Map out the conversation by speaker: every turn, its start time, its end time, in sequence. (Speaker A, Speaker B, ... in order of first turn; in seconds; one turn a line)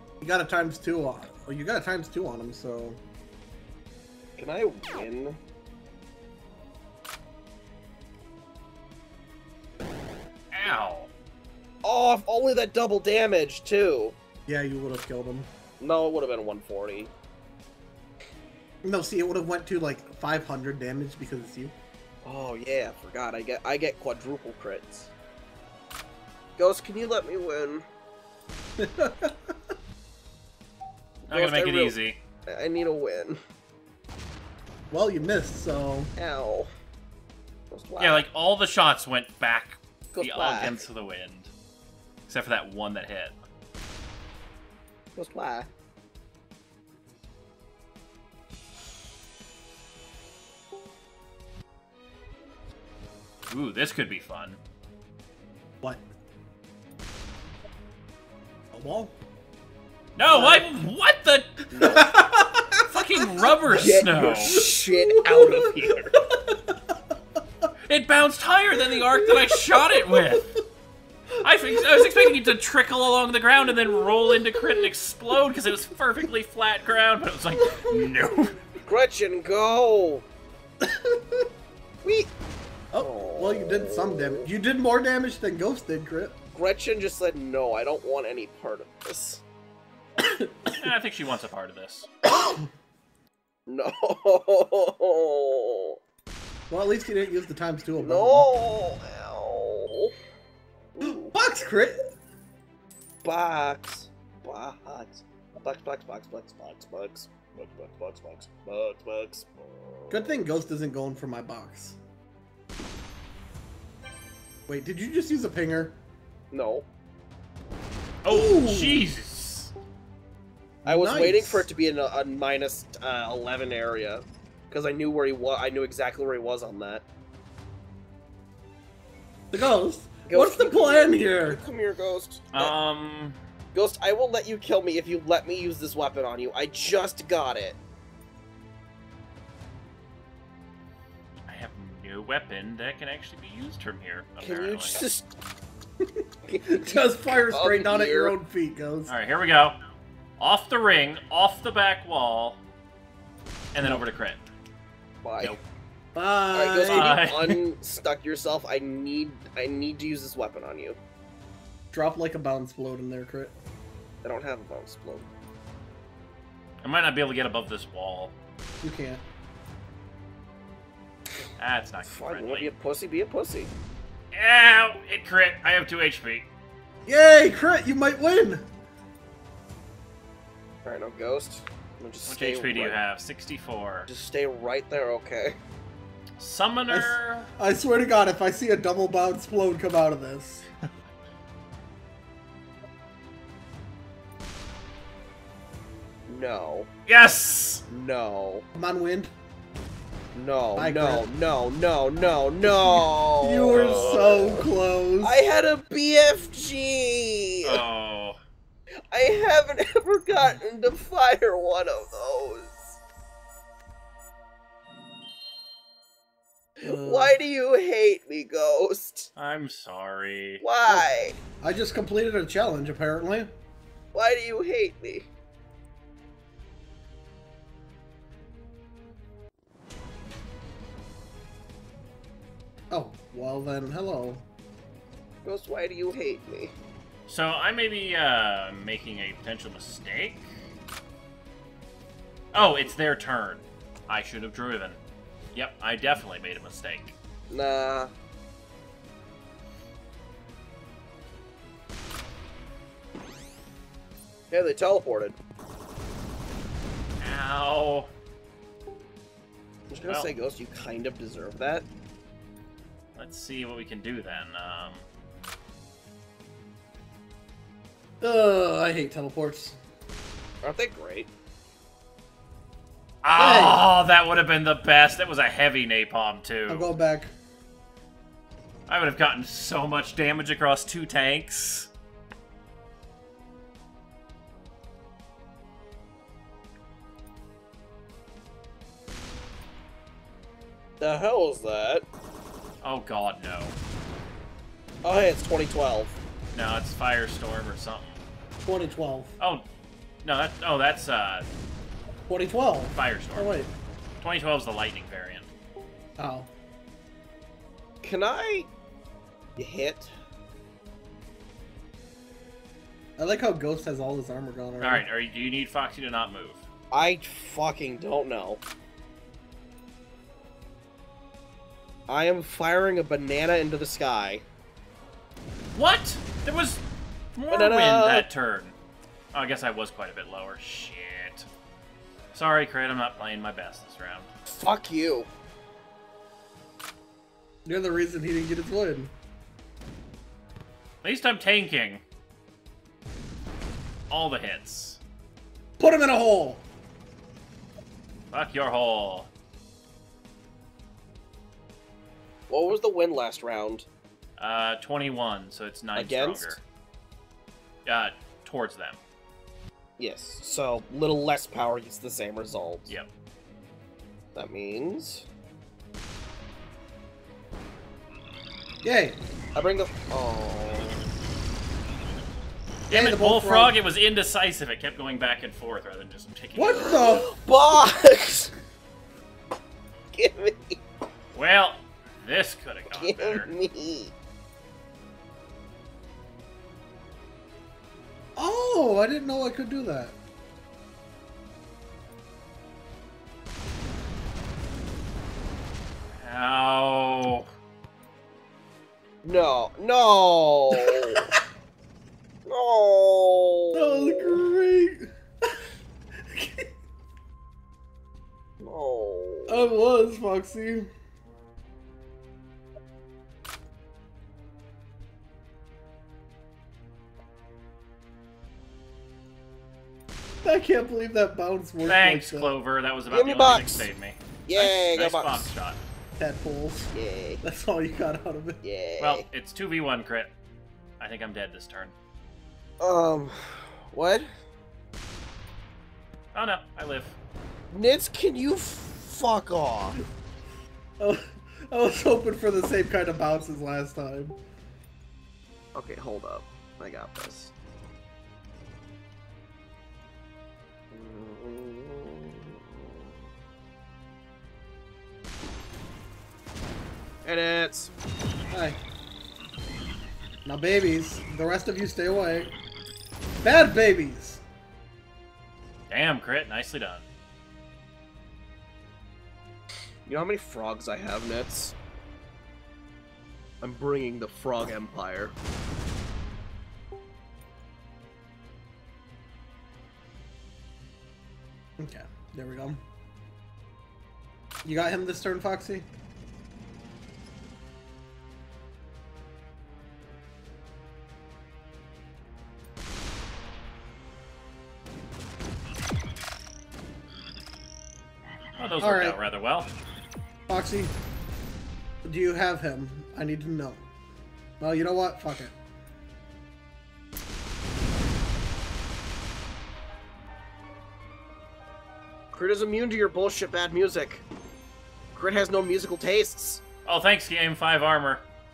Speaker A: 0.2-3.0
Speaker B: 4.4-5.4
Speaker C: 10.5-11.1
Speaker B: 11.8-14.2
Speaker A: 14.5-15.5
Speaker B: 15.8-17.1
Speaker A: 18.8-21.7
Speaker B: 22.2-25.1
Speaker B: 26.6-27.9
Speaker A: 28.8-29.6
Speaker B: 31.3-33.4
Speaker C: 31.3-32.2
Speaker A: 34.9-36.1
Speaker B: 36.2-36.7
Speaker B: 37.7-38.3
Speaker C: 38.0-41.5
Speaker B: 40.1-40.9
Speaker C: 42.3-43.4
Speaker B: 45.2-45.7
Speaker C: 53.5-54.6
Speaker A: 58.7-59.1
Speaker C: 60.2-61.6
Speaker B: 60.3-60.6
Speaker B: 61.7-62.1
Speaker A: 61.8-67.7
Speaker C: 62.9-64.6
Speaker B: 63.6-66.2
Speaker C: 67.9-70.5
Speaker A: 69.0-70.6
Speaker C: 71.4-78.6
Speaker A: 71.8-72.3
Speaker A: 74.3-74.6
Speaker B: 78.8-80.3
Speaker A: 80.8-81.5
Speaker B: 82.0-82.3
Speaker A: 82.9-86.3
Speaker B: 83.0-84.5
Speaker B: 86.5-89.4
Speaker A: 90.2-90.8
Speaker C: 90.7-92.1
Speaker B: 92.3-92.6
Speaker B: 93.7-96.0
Speaker A: 96.7-98.5
Speaker B: 98.0-100.1
Speaker B: 101.0-101.4
Speaker A: 101.0-102.0
Speaker B: 103.2-110.4
Speaker A: 110.1-112.0
Speaker A: 114.7-116.0
Speaker B: 116.5-116.9
Speaker C: 118.2-119.7
Speaker A: 118.3-119.2
Speaker A: 120.8-121.7
Speaker B: 120.9-127.0
Speaker A: 129.5-131.6
Speaker B: 130.3-132.8
Speaker C: 132.5-133.4
Speaker B: 133.7-137.8
Speaker C: 141.5-145.0
Speaker B: 144.4-145.3
Speaker A: 146.0-149.1
Speaker B: 146.5-148.3
Speaker C: 149.1-149.8
Speaker C: 150.4-152.6
Speaker C: 153.7-154.4
Speaker A: 153.8-154.0
Speaker B: 155.2-155.6
Speaker A: 156.2-157.2
Speaker B: 156.5-161.0
Speaker C: 156.8-157.6
Speaker A: 161.9-163.5
Speaker B: 164.2-165.3
Speaker C: 166.8-168.3
Speaker A: 168.8-169.2
Speaker C: 171.6-172.7
Speaker B: 172.1-173.7
Speaker C: 174.3-176.5
Speaker A: 177.1-178.7
Speaker B: 180.8-183.0
Speaker C: 182.3-184.1
Speaker B: 184.1-185.6
Speaker C: 186.4-187.5
Speaker A: 186.9-190.7
Speaker B: 196.3-196.9
Speaker C: 197.1-197.8
Speaker B: 197.9-198.7
Speaker A: 198.8-199.3
Speaker B: 200.3-204.7
Speaker A: 200.8-201.3
Speaker A: 203.4-205.4
Speaker C: 203.7-204.5
Speaker B: 205.2-207.8
Speaker C: 207.6-208.4
Speaker B: 209.1-213.0
Speaker B: 216.8-219.3
Speaker A: 216.8-217.4
Speaker C: 219.4-220.6
Speaker B: 220.6-221.4
Speaker A: 220.9-223.5
Speaker B: 224.1-225.3
Speaker A: 232.9-234.4
Speaker B: 235.4-236.7
Speaker C: 237.3-240.5
Speaker C: 242.5-245.0
Speaker C: 245.5-247.2
Speaker B: 247.5-248.1
Speaker B: 254.5-255.4
Speaker C: 257.2-258.1
Speaker B: 259.9-261.9
Speaker C: 263.2-265.1
Speaker A: 268.2-269.8
Speaker B: 270.6-271.3
Speaker C: 273.2-276.9
Speaker A: 273.4-273.8
Speaker A: 276.7-277.3
Speaker C: 278.9-281.9
Speaker B: 291.0-292.1
Speaker C: 292.8-293.8
Speaker B: 295.0-296.2
Speaker C: 296.5-298.2
Speaker A: 298.7-299.3
Speaker C: 299.4-299.6
Speaker C: 300.2-301.5
Speaker A: 302.3-303.7
Speaker C: 302.9-303.5
Speaker C: 304.2-305.5
Speaker A: 306.2-306.5
Speaker B: 308.0-308.7
Speaker B: 309.6-310.1
Speaker A: 313.2-315.0
Speaker C: 314.8-316.6
Speaker B: 316.9-318.6
Speaker B: 322.1-324.4
Speaker C: 325.8-326.8
Speaker C: 327.4-328.8
Speaker B: 327.5-328.3
Speaker C: 329.3-331.5
Speaker C: 332.3-334.3
Speaker B: 334.5-335.3
Speaker A: 337.7-339.1
Speaker C: 341.0-342.0
Speaker C: 344.1-345.0
Speaker A: 345.8-346.6
Speaker C: 348.3-349.3
Speaker B: 352.5-353.9
Speaker C: 354.4-356.6
Speaker B: 355.9-356.6
Speaker C: 357.9-359.0
Speaker B: 360.0-362.9
Speaker B: 364.4-365.3
Speaker A: 368.8-369.2
Speaker B: 369.6-371.1
Speaker C: 372.9-377.2
Speaker A: 372.9-373.8
Speaker A: 376.6-377.3
Speaker B: 376.8-378.5
Speaker B: 380.1-380.8
Speaker C: 381.3-383.5
Speaker B: 382.9-384.1
Speaker A: 388.4-390.2
Speaker C: 396.2-397.5
Speaker B: 399.2-401.3
Speaker A: 400.9-401.4
Speaker B: 402.5-404.4
Speaker A: 403.7-405.6
Speaker A: 406.2-406.7
Speaker B: 408.6-409.7
Speaker A: 409.5-410.9
Speaker A: 420.4-422.5
Speaker C: 421.9-425.8
Speaker B: 423.1-423.9
Speaker B: 424.5-425.5
Speaker A: 426.2-426.9
Speaker B: 426.9-427.4
Speaker A: 427.4-428.6
Speaker B: 428.6-429.2
Speaker C: 429.0-430.3
Speaker C: 431.0-431.9
Speaker B: 432.8-434.3
Speaker C: 436.3-437.2
Speaker B: 437.7-440.0
Speaker A: 441.0-444.4
Speaker B: 445.8-447.5
Speaker B: 450.9-453.0
Speaker B: 457.2-457.9
Speaker A: 458.5-458.8
Speaker A: 460.4-462.5
Speaker A: 463.4-464.4
Speaker C: 465.9-467.1
Speaker B: 470.1-471.8
Speaker B: 473.6-475.3
Speaker A: 481.8-482.8
Speaker A: 484.6-485.9
Speaker C: 498.6-499.7
Speaker A: 498.8-499.2
Speaker A: 500.5-500.9
Speaker A: 502.0-503.8
Speaker A: 504.6-505.5
Speaker B: 512.3-514.2
Speaker B: 515.1-516.6
Speaker C: 516.9-518.2